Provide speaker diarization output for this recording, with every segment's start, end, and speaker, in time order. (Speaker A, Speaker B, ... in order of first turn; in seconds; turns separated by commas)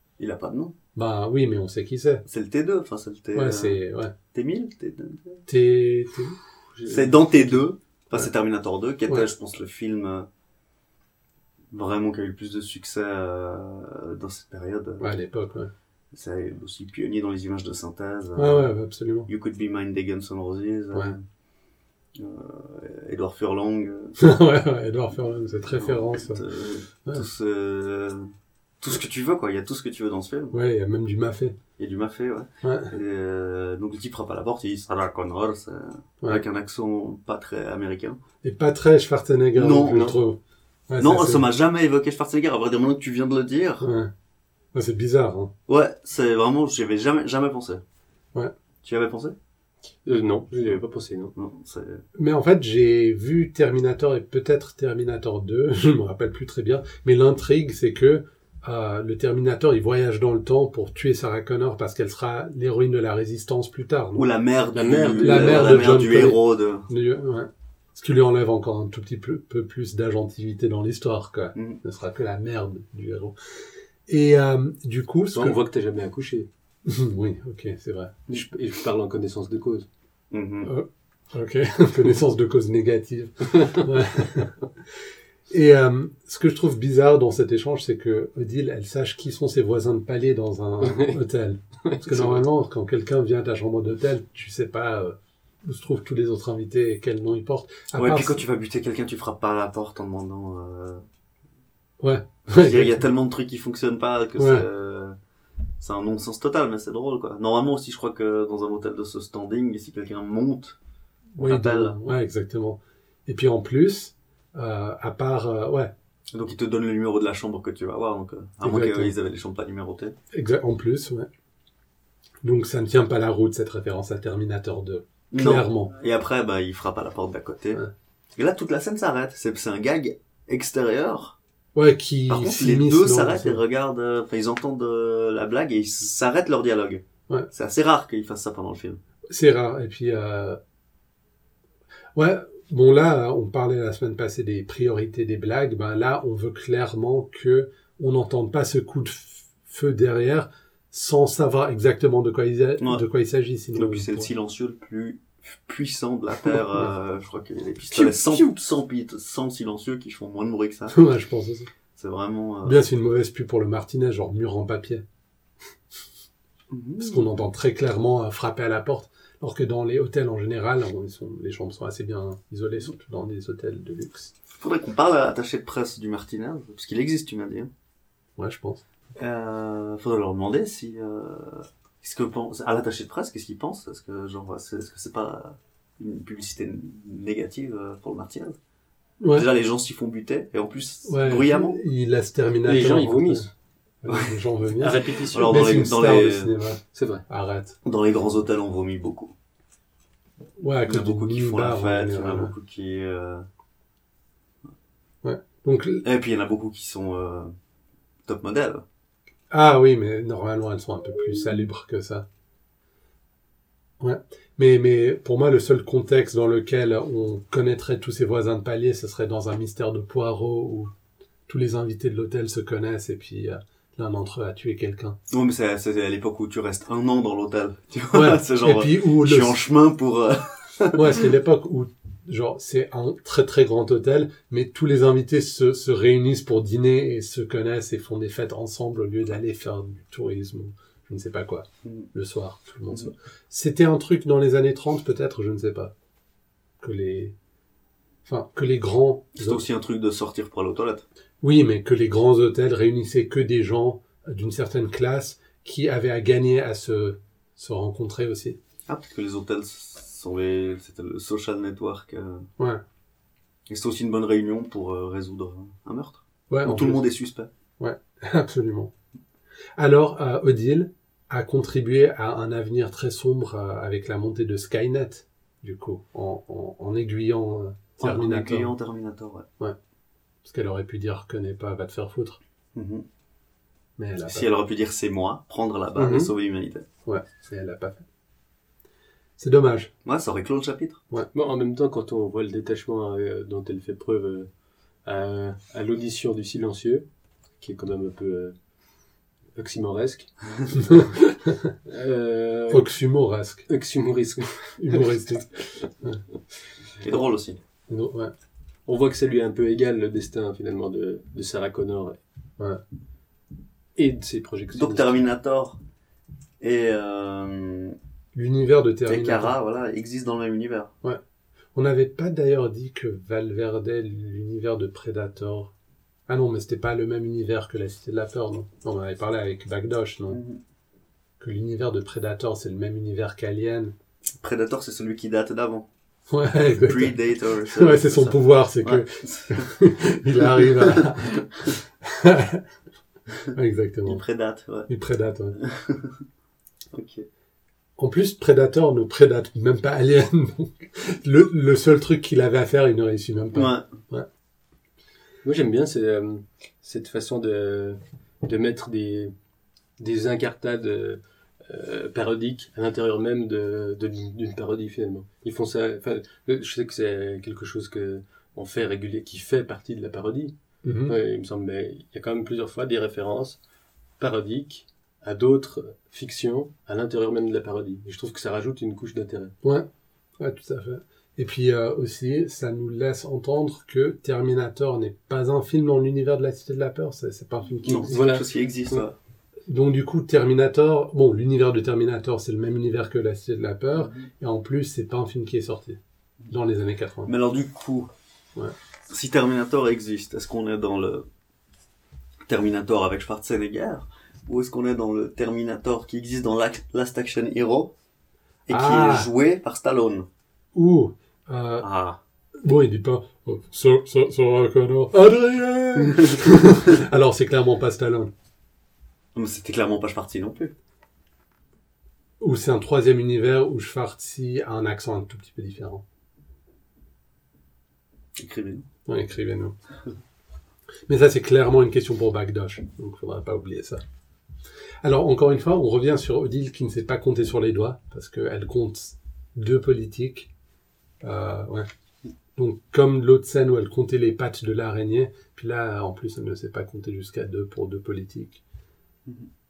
Speaker A: 0.2-0.8, Speaker B: 0.9-2.2, Speaker A: 2.3-3.8, Speaker B: 3.4-4.1, Speaker A: 4.3-5.4, Speaker B: 5.5-6.4, Speaker C: 6.8-7.6, Speaker A: 6.8-10.3, Speaker A: 11.7-15.1, Speaker B: 15.0-15.7, Speaker A: 16.1-18.7, Speaker B: 18.4-19.3, Speaker A: 19.3-21.2, Speaker A: 22.2-24.2, Speaker B: 24.2-26.4, Speaker A: 25.6-28.3, Speaker A: 28.8-30.6, Speaker B: 30.5-31.6, Speaker A: 31.8-38.2, Speaker B: 32.6-32.9, Speaker B: 38.4-41.5, Speaker A: 39.5-40.1, Speaker A: 41.0-43.9, Speaker B: 43.8-44.1, Speaker B: 44.7-45.5, Speaker A: 45.7-47.8, Speaker A: 48.8-49.4, Speaker C: 50.0-51.3, Speaker A: 51.4-52.0, Speaker B: 52.2-64.3, Speaker A: 64.2-66.9, Speaker C: 64.7-66.0, Speaker B: 65.2-73.4, Speaker B: 74.1-75.6, Speaker C: 75.3-76.5, Speaker B: 76.9-78.2, Speaker C: 78.3-79.9, Speaker A: 80.3-80.7, Speaker B: 80.6-84.5, Speaker B: 85.5-98.4, Speaker C: 90.8-91.2, Speaker C: 91.9-92.4, Speaker A: 98.0-101.0, Speaker B: 102.0-103.0, Speaker A: 102.5-105.2, Speaker B: 104.4-104.7, Speaker A: 105.8-110.8, Speaker B: 111.4-115.9, Speaker A: 111.4-112.2, Speaker A: 116.3-120.2, Speaker B: 118.6-119.2, Speaker B: 120.3-121.3, Speaker B: 122.4-125.9, Speaker A: 125.3-127.8, Speaker A: 128.4-131.4, Speaker B: 131.8-133.6, Speaker A: 132.3-139.0, Speaker B: 139.3-140.6, Speaker B: 142.2-154.3, Speaker A: 152.8-153.0, Speaker A: 153.8-161.0, Speaker B: 156.5-156.9, Speaker C: 157.9-158.6, Speaker B: 160.9-161.7, Speaker A: 162.0-162.8, Speaker B: 162.6-165.0, Speaker A: 166.7-167.4, Speaker B: 167.0-174.3, Speaker A: 174.6-177.7, Speaker B: 178.4-178.8, Speaker A: 179.2-188.6, Speaker B: 189.2-189.5, Speaker A: 189.3-191.8, Speaker B: 191.1-193.5, Speaker C: 192.7-193.5, Speaker B: 194.0-197.8, Speaker A: 194.1-194.4, Speaker C: 194.8-195.8, Speaker A: 195.3-196.5, Speaker C: 196.9-197.2, Speaker A: 197.8-199.3, Speaker B: 200.6-202.5, Speaker A: 200.8-203.5, Speaker B: 205.2-206.1, Speaker A: 206.0-207.5, Speaker A: 208.3-208.8, Speaker B: 209.5-212.2, Speaker B: 214.0-220.9, Speaker B: 221.5-225.2, Speaker A: 225.3-231.2, Speaker B: 228.1-229.6, Speaker B: 230.9-245.9, Speaker B: 246.8-247.3, Speaker B: 248.2-249.6, Speaker A: 249.4-251.1, Speaker B: 251.4-258.6, Speaker A: 258.9-262.4, Speaker B: 262.6-262.8, Speaker A: 263.7-267.5, Speaker B: 266.5-267.1, Speaker B: 267.8-268.9, Speaker B: 269.8-278.7, Speaker A: 278.0-279.5, Speaker B: 280.4-282.4, Speaker A: 282.8-283.1, Speaker B: 284.0-284.5, Speaker A: 284.2-286.9, Speaker C: 285.9-286.3, Speaker B: 287.1-288.1, Speaker B: 289.4-289.9, Speaker A: 290.1-291.0, Speaker C: 291.3-294.5, Speaker C: 295.1-297.1, Speaker C: 297.6-298.6, Speaker C: 299.6-300.3, Speaker B: 300.8-301.7, Speaker C: 301.9-302.9, Speaker B: 302.7-303.7, Speaker C: 303.7-305.2, Speaker B: 304.8-306.2, Speaker A: 307.0-307.6, Speaker B: 307.9-308.3, Speaker C: 308.9-312.2, Speaker C: 314.0-315.2, Speaker A: 314.7-315.8, Speaker A: 316.6-318.0, Speaker B: 318.3-319.6, Speaker A: 319.1-320.9, Speaker B: 321.8-325.7, Speaker B: 326.3-330.4, Speaker A: 330.3-330.6, Speaker B: 331.4-333.9, Speaker A: 334.4-335.9, Speaker B: 336.3-342.6, Speaker A: 336.7-339.7, Speaker A: 340.4-341.2, Speaker B: 343.5-344.2, Speaker A: 344.1-344.9, Speaker B: 344.9-345.6, Speaker A: 345.6-346.1, Speaker A: 346.9-347.3, Speaker B: 348.0-354.3, Speaker A: 353.5-353.9, Speaker C: 355.4-359.3, Speaker C: 360.0-370.5, Speaker B: 370.8-371.2, Speaker C: 371.1-373.6, Speaker C: 374.2-379.5, Speaker B: 380.4-388.2, Speaker A: 387.8-389.2, Speaker C: 388.1-389.0, Speaker B: 389.7-397.3, Speaker A: 394.0-394.3, Speaker A: 397.3-398.1, Speaker A: 399.1-401.3, Speaker A: 402.5-407.9, Speaker A: 408.7-410.3, Speaker B: 408.7-409.3, Speaker B: 410.7-411.9, Speaker A: 411.8-412.2, Speaker B: 412.6-418.3, Speaker A: 419.4-420.7, Speaker B: 422.4-426.0, Speaker A: 428.4-428.9, Speaker B: 429.1-429.8, Speaker B: 431.1-434.0, Speaker B: 435.0-440.5, Speaker B: 441.2-441.9, Speaker B: 442.6-448.6